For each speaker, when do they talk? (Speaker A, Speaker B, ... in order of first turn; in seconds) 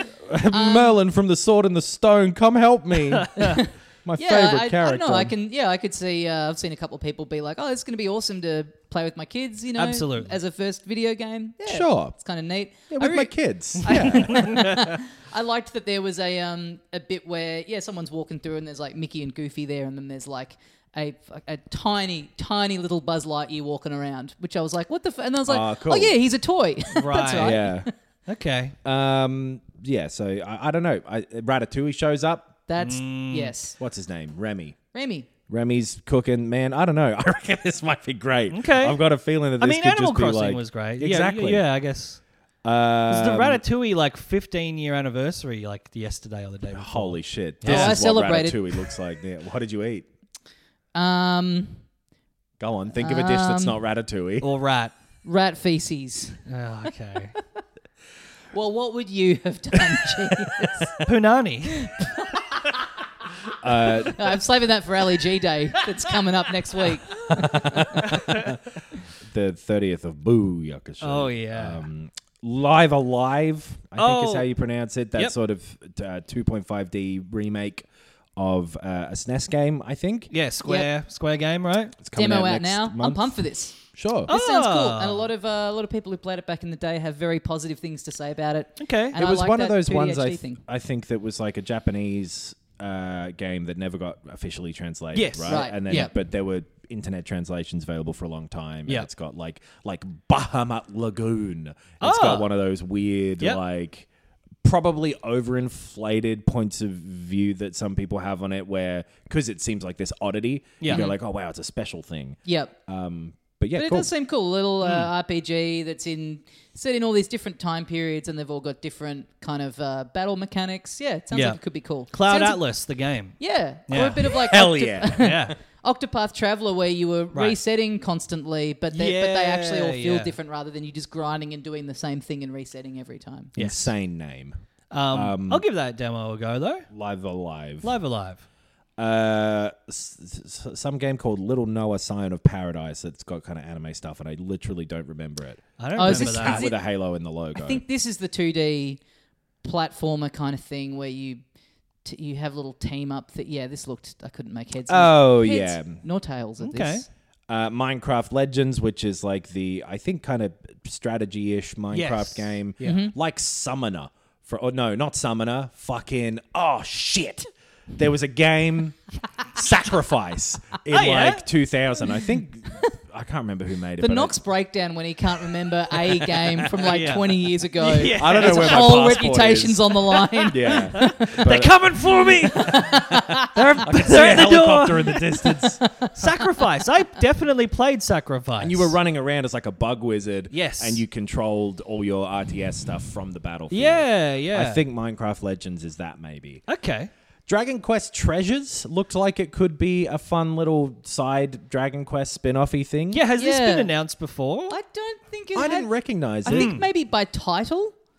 Speaker A: 0.2-3.3, 4.0-5.3, 11.6-12.2, 12.9-14.5, 25.5-26.1, 27.3-27.9, 28.8-32.6, 33.8-34.8, 35.5-41.6, 42.6-43.6, 46.7-50.1, 52.6-54.5, 63.6-64.2, 67.3-68.6, 69.2-80.3, 82.0-84.3, 89.1-104.1, 104.6-114.1, 124.2-125.4, 133.5-134.6, 135.1-135.6, 136.9-137.9, 139.0-147.8, 154.9-156.0, 157.5-174.4, 178.1-179.9, 180.5-183.1, 183.8-185.8, 188.6-196.6, 197.5-203.2, 205.5-206.8
Speaker B: 0.5-0.9, 3.4-27.9, 32.7-33.8, 34.9-35.3, 47.6-48.8, 50.9-51.8, 53.0-53.8, 55.2-56.4, 58.5-61.0, 61.8-62.4, 63.8-68.0, 82.1-90.6, 95.5-96.1, 110.9-111.2, 112.4-112.7, 113.8-122.6, 123.4-133.5, 146.0-146.8, 147.6-149.0, 149.6-151.4, 152.0-157.1, 162.8-163.1, 174.0-181.5, 182.5-183.6, 185.8-186.3, 203.4-203.9, 204.7-205.9, 206.4-207.9
Speaker C: 3.1-3.5, 9.8-10.3, 14.1-14.8, 26.9-27.6, 28.3-28.8, 32.8-33.5, 38.5-39.0, 39.6-42.2, 43.1-48.0, 54.4-54.9, 56.5-57.3, 61.0-61.9, 68.0-68.5, 71.0-71.8, 74.0-74.5, 80.3-82.0, 84.3-85.3, 88.8-89.1, 95.1-95.6, 102.0-102.5, 110.8-111.1, 114.8-115.1, 121.3-121.6, 122.1-124.3, 125.1-125.5, 128.9-130.3, 133.6-133.9, 134.9-136.9, 137.8-138.4, 145.8-146.7, 156.6-157.0, 161.9-163.0, 170.9-171.5, 176.1-179.1, 180.1-183.0, 183.5-185.2, 186.1-189.0, 190.5-191.0, 193.7-194.8, 196.7-197.1, 203.1-204.8, 206.5-206.8